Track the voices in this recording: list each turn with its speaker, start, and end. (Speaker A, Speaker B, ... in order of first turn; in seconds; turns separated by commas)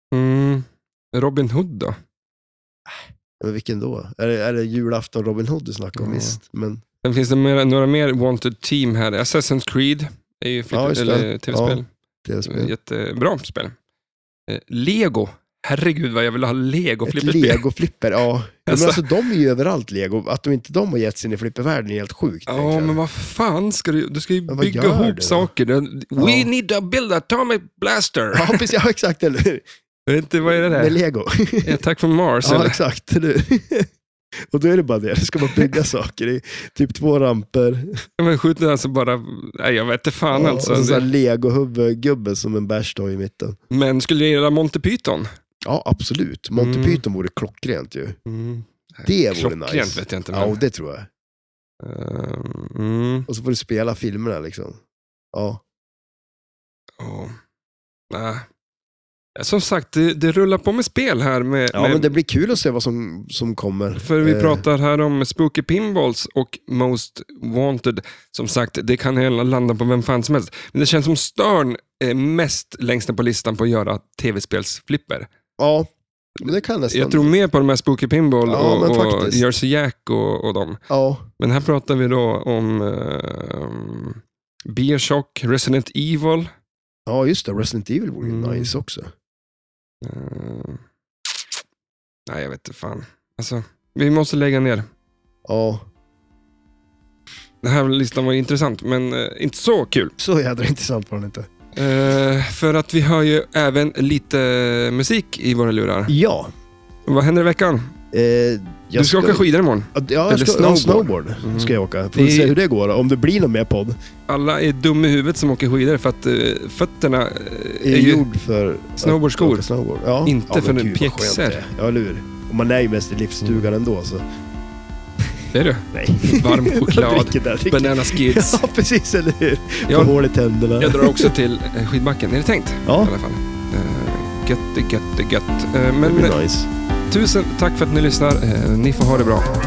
Speaker A: 0.1-2.0, Speaker B: 2.9-6.8, Speaker A: 6.0-6.4, Speaker A: 7.0-11.9, Speaker B: 10.7-12.7, Speaker A: 12.4-13.8, Speaker A: 14.5-17.6, Speaker B: 17.1-23.0, Speaker A: 18.7-19.0, Speaker A: 22.5-28.6, Speaker B: 24.5-25.5, Speaker B: 26.2-26.5, Speaker B: 28.3-29.6, Speaker A: 30.1-31.0, Speaker B: 30.4-31.8, Speaker A: 31.6-32.8, Speaker B: 32.4-33.9, Speaker B: 34.5-38.0, Speaker A: 38.2-41.1, Speaker B: 40.3-43.6, Speaker A: 43.7-45.3, Speaker B: 45.6-48.2, Speaker A: 46.6-47.0, Speaker A: 48.3-50.6, Speaker B: 49.0-51.1, Speaker A: 51.8-53.3, Speaker B: 53.3-54.8, Speaker B: 55.3-55.6, Speaker A: 57.0-57.4, Speaker A: 58.1-58.5, Speaker A: 59.4-62.2, Speaker B: 61.7-64.7, Speaker A: 64.0-75.3, Speaker B: 75.6-75.9, Speaker B: 76.4-77.3, Speaker A: 76.5-80.8, Speaker B: 78.5-79.4, Speaker B: 80.9-81.3, Speaker A: 81.4-86.5, Speaker B: 87.1-89.1, Speaker A: 88.2-88.7, Speaker A: 90.0-90.8, Speaker A: 92.3-94.9, Speaker B: 95.5-95.9, Speaker A: 97.6-100.2, Speaker B: 100.2-101.5, Speaker A: 101.8-106.1, Speaker B: 106.1-106.5, Speaker A: 107.1-107.9, Speaker B: 108.1-114.0, Speaker A: 109.0-112.5, Speaker A: 114.3-118.2, Speaker B: 117.8-124.2, Speaker A: 119.0-119.7, Speaker A: 120.2-121.6, Speaker A: 123.4-123.7, Speaker A: 125.5-128.6, Speaker B: 125.9-131.3, Speaker A: 129.9-130.2, Speaker A: 130.8-136.4, Speaker B: 132.9-133.1, Speaker B: 136.0-136.7, Speaker A: 137.1-139.6